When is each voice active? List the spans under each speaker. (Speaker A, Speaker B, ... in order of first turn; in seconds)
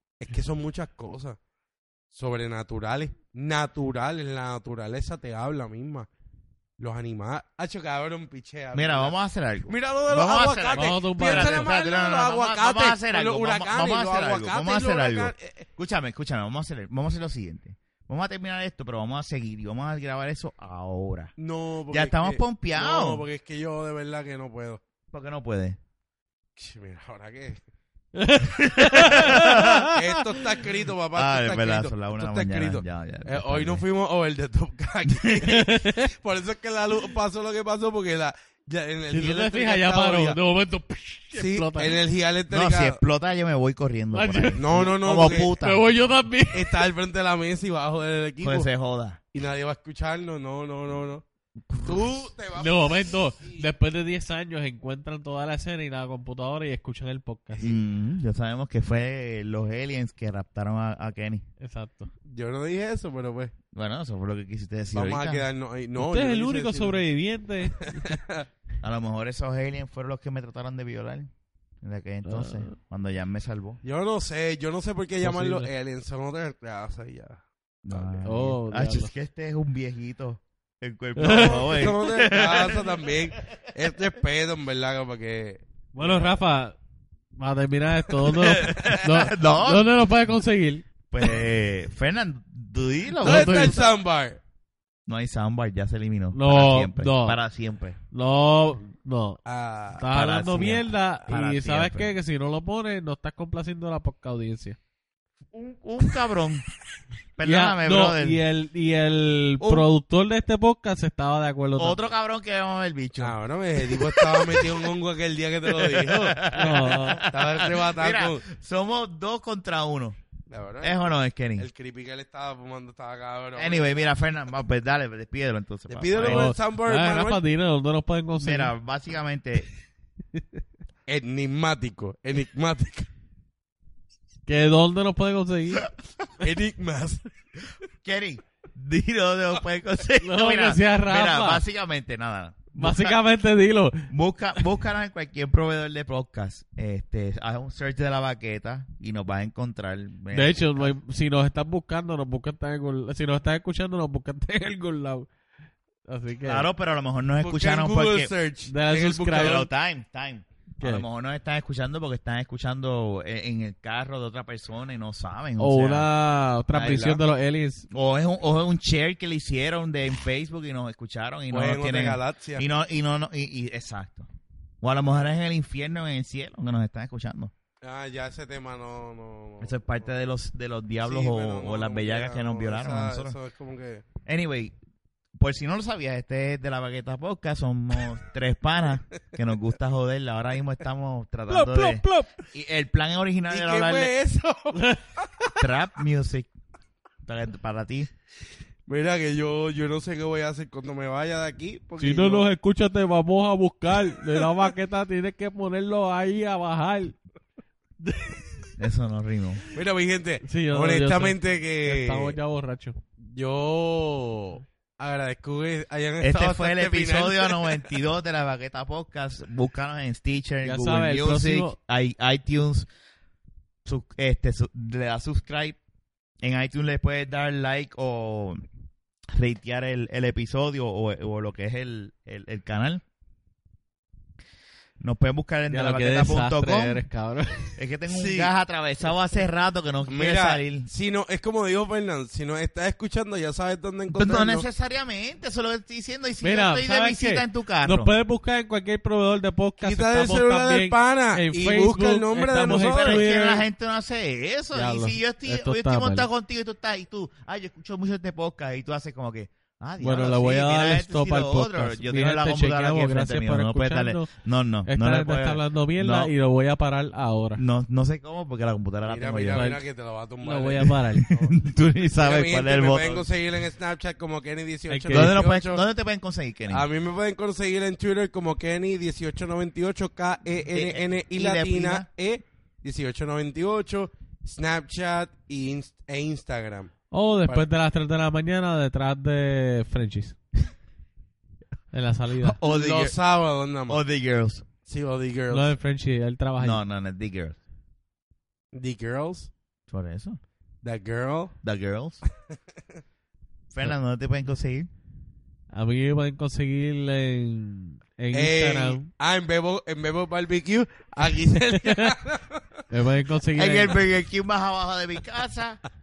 Speaker A: 0.2-1.4, 2.1-6.1, 6.8-9.2, 9.7-15.7, 21.4-24.8, 26.6-27.6, 29.2-40.4, 41.4-43.0, 44.6-45.5, 46.5-48.7, 49.3-51.2, 51.8-53.7, 62.2-63.5, 64.9-67.0, 67.8-68.5, 73.8-78.2, 81.2-86.3, 93.2-94.4, 99.5-100.1, 113.2-116.5, 117.2-118.5, 120.5-121.0, 121.6-124.0, 125.9-127.4, 131.1-133.1, 136.4-137.3, 157.4-159.7, 171.5-172.7, 177.8-180.1, 181.0-184.1, 193.5-195.6, 198.9-202.5, 209.7-212.4, 213.2-218.0, 238.1-238.5, 240.1-244.7, 249.8-253.3, 269.1-271.6, 272.2-275.9, 276.7-286.9, 292.6-294.0, 294.9-295.8, 298.7-299.5, 300.8-301.6, 308.3-312.8
Speaker B: 8.7-21.3, 21.9-23.3, 25.1-25.8, 28.4-29.9, 31.1-33.8, 35.1-35.6, 42.5-45.9, 48.4-49.2, 51.7-52.3, 57.6-61.5, 63.7-65.5, 68.8-71.3, 71.8-73.8, 77.8-83.3, 88.4-89.9, 91.1-93.9, 95.1-98.0, 100.1-102.1, 105.5-106.7, 107.4-108.4, 109.6-109.9, 111.8-114.9, 115.7-120.2, 120.8-121.7, 123.6-126.5, 128.4-129.7, 138.0-143.2, 144.1-151.0, 156.4-158.3, 159.3-166.1, 166.7-167.2, 167.9-174.3, 174.8-177.5, 179.6-183.4, 184.3-184.8, 185.4-194.1, 195.6-196.5, 197.2-198.1, 208.8-209.6, 216.2-222.9, 223.8-225.8, 226.4-228.6, 229.3-233.0, 235.0-237.0, 237.8-240.9, 244.1-248.1, 252.6-266.3, 267.6-269.7, 271.1-273.3, 275.1-276.9, 280.7-282.1, 292.4-293.2, 293.9-294.6, 296.6-297.6, 299.9-300.4, 301.6-302.2, 303.7-304.9, 313.6-315.8
Speaker C: 10.7-11.7, 28.1-30.2, 35.5-36.1, 39.1-42.0, 44.1-46.9, 52.6-57.7, 61.6-62.1, 66.0-68.1, 72.2-72.8, 75.2-75.7, 78.2-79.1, 81.2-81.9, 86.0-86.8, 87.4-90.9, 93.2-93.9, 96.3-97.4, 98.1-99.4, 100.0-104.8, 107.4-112.0, 116.5-117.2, 126.2-128.7, 134.5-135.9, 140.2-141.6, 142.8-144.1, 150.3-155.3, 156.1-156.7, 158.7-159.7, 160.8-161.1, 165.6-167.9, 191.5-192.3, 194.7-195.0, 202.0-207.2, 208.0-208.7, 210.4-213.0, 220.6-221.8, 235.7-237.8, 246.4-253.7, 254.7-256.3, 260.0-264.3, 264.9-267.6, 269.5-269.8, 270.4-271.2, 274.9-275.4, 287.1-290.4, 291.9-292.6, 295.5-296.8, 305.7-309.1, 311.6-312.1, 312.9-314.0